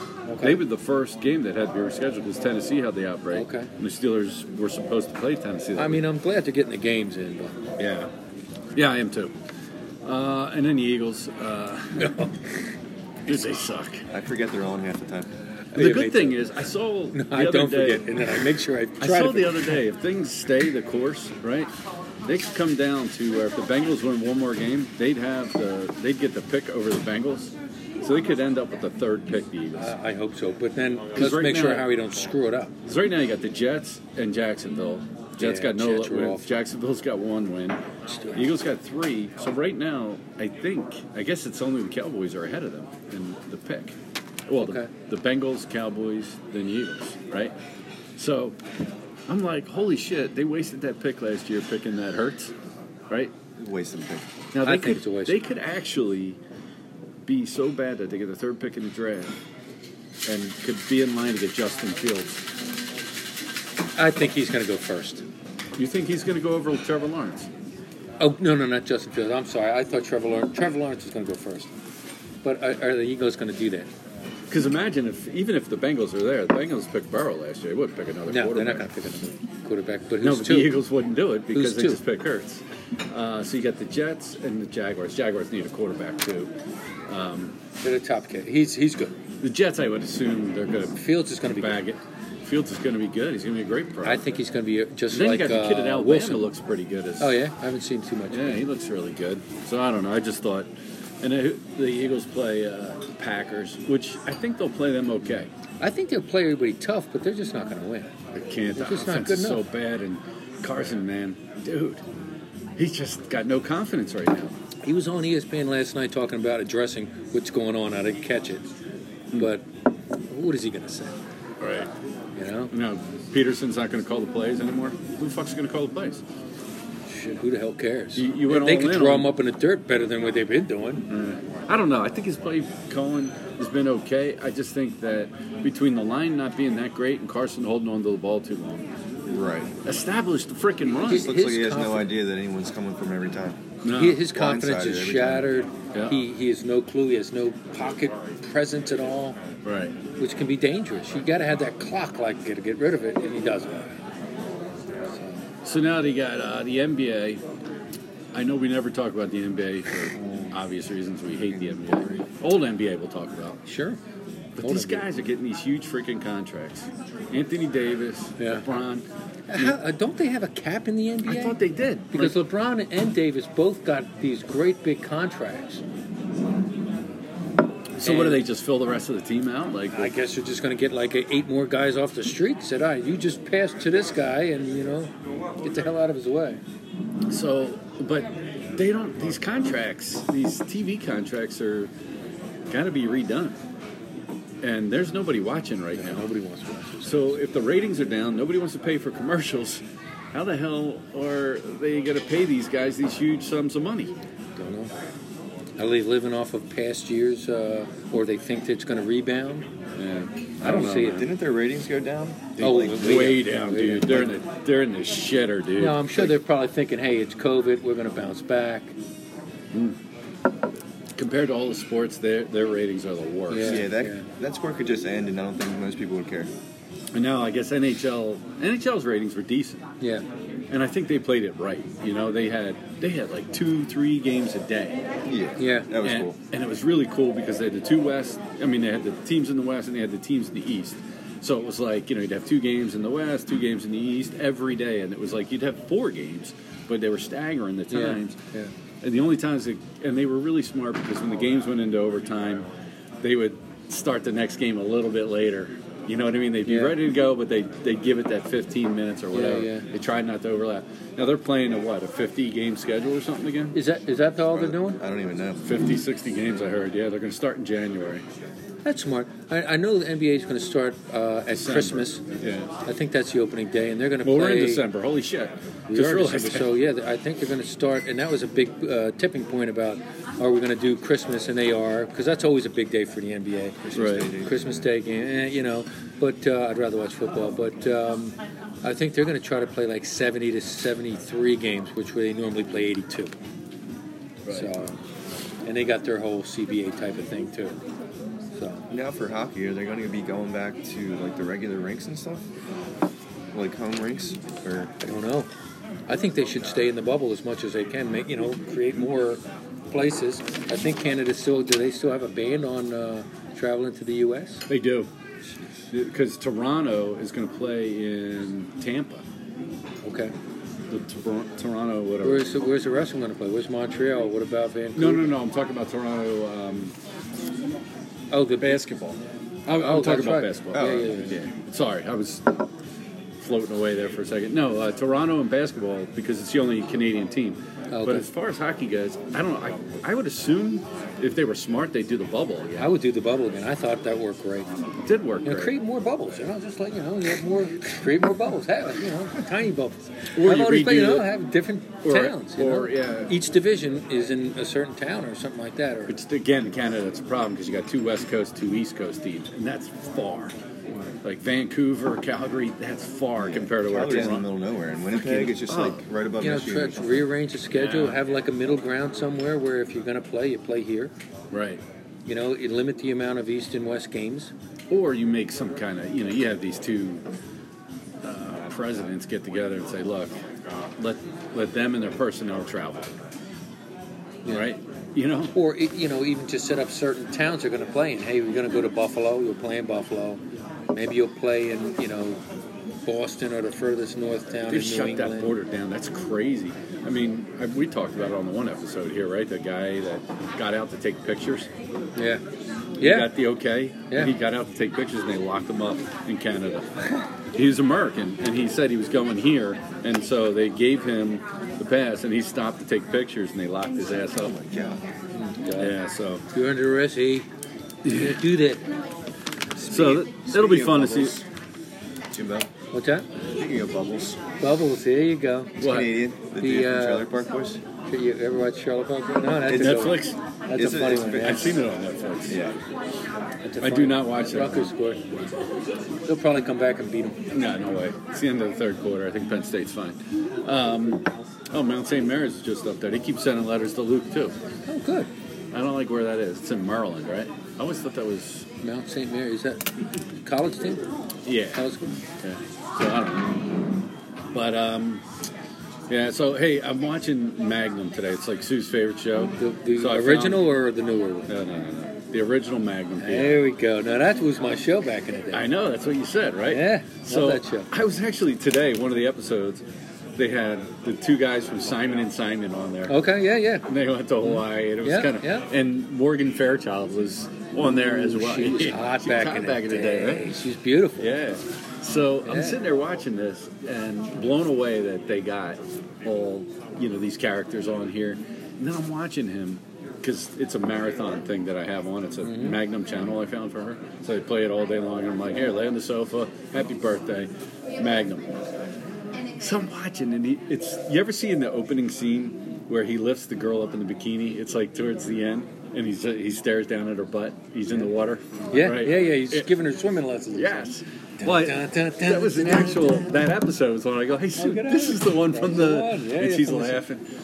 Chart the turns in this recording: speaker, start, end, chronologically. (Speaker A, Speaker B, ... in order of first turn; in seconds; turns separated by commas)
Speaker A: 0.3-0.6, Speaker B: 0.4-6.0, Speaker A: 3.3-3.7, Speaker A: 5.8-7.5, Speaker B: 7.8-8.1, Speaker B: 8.7-9.3, Speaker B: 10.0-12.3, Speaker A: 12.0-12.3, Speaker B: 13.3-14.0, Speaker C: 14.1-15.3, Speaker A: 15.7-16.5, Speaker B: 15.7-18.4, Speaker A: 17.1-19.8, Speaker B: 19.0-21.7, Speaker B: 22.2-29.9, Speaker A: 29.8-32.7, Speaker B: 31.1-31.9, Speaker B: 32.9-37.8, Speaker A: 35.4-36.5, Speaker A: 38.1-38.4, Speaker B: 38.4-43.9, Speaker B: 44.5-47.5, Speaker A: 44.6-44.9, Speaker B: 48.2-48.6, Speaker B: 49.3-52.5, Speaker C: 53.6-54.3, Speaker B: 54.5-56.4, Speaker A: 54.6-55.4, Speaker B: 57.2-59.3, Speaker B: 60.2-62.4, Speaker A: 64.0-65.2, Speaker B: 65.8-67.5, Speaker A: 68.2-71.7, Speaker A: 72.4-73.9, Speaker B: 74.5-79.1, Speaker A: 78.3-80.7, Speaker B: 80.2-86.5, Speaker A: 81.5-82.0, Speaker B: 87.1-87.5, Speaker A: 87.8-89.2, Speaker B: 89.4-94.2, Speaker A: 91.0-91.8, Speaker A: 94.0-96.5, Speaker B: 95.1-97.4, Speaker A: 97.2-98.7, Speaker B: 98.3-100.7, Speaker B: 101.2-105.5, Speaker A: 105.8-108.1, Speaker B: 108.3-112.0, Speaker A: 108.8-109.6, Speaker B: 112.8-114.5, Speaker A: 114.8-118.7, Speaker A: 119.3-119.6, Speaker A: 120.3-121.1, Speaker B: 121.6-121.9, Speaker A: 122.3-122.7, Speaker B: 122.7-126.2, Speaker A: 127.1-131.0, Speaker B: 128.2-129.3, Speaker B: 131.1-138.8, Speaker C: 139.3-139.7, Speaker B: 139.8-141.3, Speaker A: 141.0-142.1, Speaker C: 141.1-143.6, Speaker B: 143.8-144.2, Speaker A: 143.9-149.4, Speaker C: 144.2-145.5, Speaker B: 149.6-149.9, Speaker A: 150.2-154.0, Speaker A: 155.1-155.4, Speaker B: 155.6-157.4, Speaker B: 158.3-163.6, Speaker A: 160.1-160.5, Speaker C: 161.5-162.2, Speaker A: 163.7-164.0, Speaker B: 164.6-169.0, Speaker A: 164.6-165.1, Speaker A: 168.4-168.6, Speaker A: 169.5-171.6, Speaker B: 171.2-172.4, Speaker A: 172.1-175.8, Speaker B: 178.0-180.1, Speaker A: 178.0-178.4, Speaker A: 179.9-186.6, Speaker B: 187.3-191.9, Speaker B: 192.7-193.6, Speaker B: 194.6-196.2, Speaker A: 195.9-197.4, Speaker B: 197.0-199.8, Speaker B: 200.3-204.1, Speaker A: 204.6-204.9, Speaker A: 205.8-209.7, Speaker B: 209.9-211.3, Speaker A: 210.6-211.2, Speaker C: 210.6-212.6, Speaker B: 212.6-216.3, Speaker A: 212.6-214.3, Speaker A: 215.8-218.9, Speaker B: 219.7-220.0, Speaker B: 221.2-223.9, Speaker A: 223.5-224.2, Speaker C: 223.6-226.5, Speaker B: 227.1-229.8, Speaker B: 230.7-235.0, Speaker C: 235.3-236.3, Speaker A: 235.6-235.9, Speaker B: 236.0-248.4, Speaker A: 247.9-248.7, Speaker B: 249.0-252.6, Speaker B: 253.2-263.8, Speaker A: 256.6-256.9, Speaker A: 259.3-259.8, Speaker A: 263.7-265.0, Speaker C: 264.5-265.6, Speaker B: 265.6-268.2, Speaker A: 268.8-272.2, Speaker B: 271.5-272.7, Speaker A: 272.9-274.8, Speaker B: 274.2-276.8, Speaker A: 275.9-283.8, Speaker C: 283.8-284.6, Speaker B: 283.9-284.3, Speaker A: 284.3-293.3, Speaker A: 294.5-294.9, Speaker A: 295.6-297.8, Speaker A: 298.5-298.8, Speaker C: 298.9-302.4, Speaker C: 303.5-304.9, Speaker A: 305.0-305.5, Speaker A: 306.1-314.6, Speaker B: 314.7-315.1, Speaker B: 315.9-319.2, Speaker A: 320.0-320.3, Speaker B: 320.9-322.6, Speaker A: 322.2-325.3, Speaker B: 324.9-326.9, Speaker A: 328.3-328.9, Speaker B: 328.6-332.6, Speaker A: 329.7-331.4, Speaker C: 330.7-331.4, Speaker B: 333.4-342.9, Speaker A: 337.9-338.2, Speaker A: 342.8-344.7, Speaker B: 345.0-345.7, Speaker A: 345.4-356.1, Speaker B: 350.4-351.3, Speaker B: 352.0-353.3, Speaker B: 356.1-360.5, Speaker B: 361.2-364.5, Speaker C: 363.4-367.3, Speaker B: 365.1-366.0, Speaker A: 366.4-371.1, Speaker B: 367.7-368.2, Speaker B: 371.5-371.8, Speaker A: 372.3-374.5, Speaker B: 374.9-377.2, Speaker B: 378.2-380.3, Speaker B: 381.0-383.1, Speaker B: 384.5-385.5, Speaker A: 385.5-390.4, Speaker A: 390.9-392.4, Speaker A: 393.1-395.5, Speaker B: 394.7-401.7, Speaker A: 402.1-402.4, Speaker A: 403.0-403.3, Speaker B: 403.0-406.9, Speaker B: 407.5-414.6, Speaker C: 414.4-415.0, Speaker A: 415.3-415.9, Speaker B: 415.8-416.4, Speaker A: 416.5-417.5, Speaker B: 418.0-418.4, Speaker A: 418.0-418.8, Speaker C: 419.8-421.4, Speaker B: 419.9-421.4, Speaker C: 422.3-422.7, Speaker A: 422.9-423.2, Speaker C: 423.5-424.4, Speaker A: 424.6-425.8, Speaker C: 425.8-427.8, Speaker B: 425.8-426.1, Speaker A: 426.6-427.3, Speaker A: 428.1-431.8, Speaker B: 429.6-430.4, Speaker C: 430.7-431.8, Speaker B: 431.4-432.6, Speaker C: 432.5-432.8, Speaker A: 433.6-435.2, Speaker B: 433.8-434.9, Speaker A: 436.2-437.4, Speaker B: 437.5-444.5, Speaker A: 444.9-445.3, Speaker B: 445.7-448.6, Speaker A: 448.8-449.9, Speaker A: 450.4-451.0, Speaker B: 451.4-451.9, Speaker A: 451.7-452.2, Speaker B: 452.4-453.8, Speaker B: 454.5-455.2, Speaker B: 456.1-460.7, Speaker A: 459.6-461.5, Speaker B: 461.5-463.6, Speaker A: 463.2-465.7, Speaker B: 465.5-469.8, Speaker A: 466.7-467.9, Speaker B: 470.4-473.2, Speaker A: 473.1-473.8, Speaker B: 473.9-480.6, Speaker A: 474.4-475.7, Speaker A: 477.8-481.3, Speaker B: 481.2-498.6, Speaker A: 482.4-482.8, Speaker A: 492.4-492.8, Speaker B: 499.6-509.7, Speaker A: 508.7-510.9, Speaker B: 510.5-517.2, Speaker A: 511.4-513.3, Speaker A: 514.6-517.0